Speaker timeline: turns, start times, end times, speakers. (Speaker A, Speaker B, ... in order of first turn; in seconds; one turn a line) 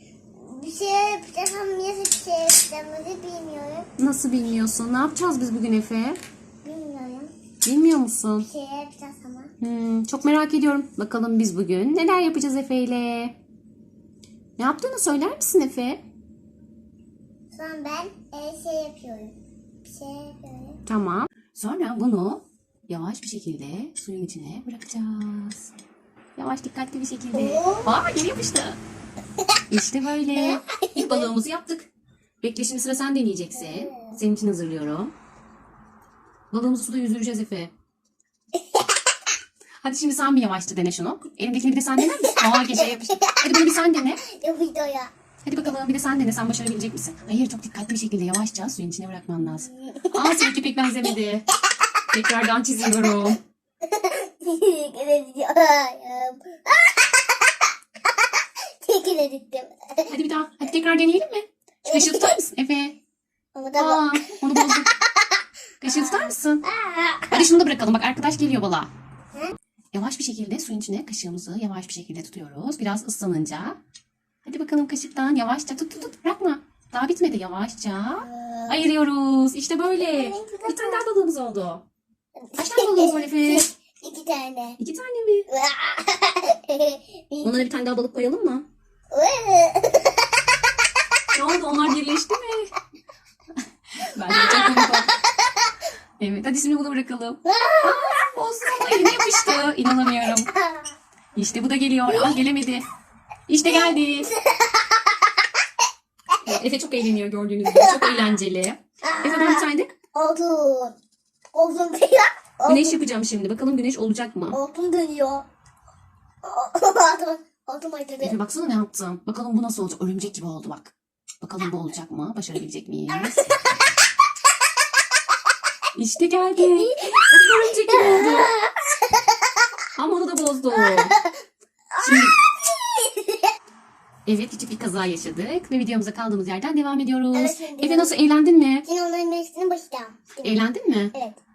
Speaker A: 0.3-3.9
Speaker B: 4.0-6.2
Speaker A: 6.6-7.3
Speaker B: 7.6-8.5
Speaker A: 8.4-9.5
Speaker B: 9.6-13.3
Speaker B: 14.6-16.0
Speaker A: 17.5-20.8
Speaker B: 20.9-25.7
Speaker B: 26.4-28.8
Speaker A: 27.3-28.0
Speaker B: 29.7-31.9
Speaker A: 30.3-31.3
Speaker B: 32.4-35.1
Speaker A: 33.5-34.2
Speaker B: 36.5-37.7
Speaker A: 38.5-38.9
Speaker B: 39.8-44.2
Speaker A: 42.0-43.5
Speaker A: 44.2-45.1
Speaker B: 45.4-51.5
Speaker A: 49.4-50.5
Speaker B: 52.1-53.4
Speaker A: 53.8-60.1
Speaker B: 60.1-63.0
Speaker A: 61.8-62.4
Speaker A: 63.5-67.5
Speaker B: 63.8-64.9
Speaker B: 65.8-66.6
Speaker B: 67.3-68.9
Speaker B: 69.9-73.8
Speaker B: 74.4-81.8
Speaker A: 78.2-78.9
Speaker A: 80.0-81.0
Speaker A: 82.4-84.8
Speaker B: 82.6-83.7
Speaker B: 84.8-85.5
Speaker A: 85.5-87.6
Speaker B: 87.4-88.6
Speaker A: 89.1-90.4
Speaker B: 91.3-92.7
Speaker B: 94.0-95.1
Speaker A: 94.2-95.7
Speaker B: 96.2-100.5
Speaker A: 97.4-99.4
Speaker A: 100.2-100.9
Speaker B: 101.3-102.8
Speaker A: 102.1-102.4
Speaker B: 103.5-104.3
Speaker A: 103.6-105.4
Speaker B: 106.4-109.9
Speaker A: 107.7-108.4
Speaker A: 109.0-110.9
Speaker A: 111.5-113.0
Speaker B: 112.7-114.6
Speaker A: 114.5-115.5
Speaker A: 116.4-118.4
Speaker B: 118.2-123.5
Speaker A: 123.1-123.6
Speaker B: 125.9-128.5
Speaker A: 126.5-129.6
Speaker B: 129.9-131.2
Speaker A: 130.7-131.3
Speaker A: 131.9-133.5
Speaker B: 132.0-132.3
Speaker B: 134.2-138.8
Speaker A: 137.3-138.2
Speaker A: 138.8-141.4
Speaker B: 140.4-141.1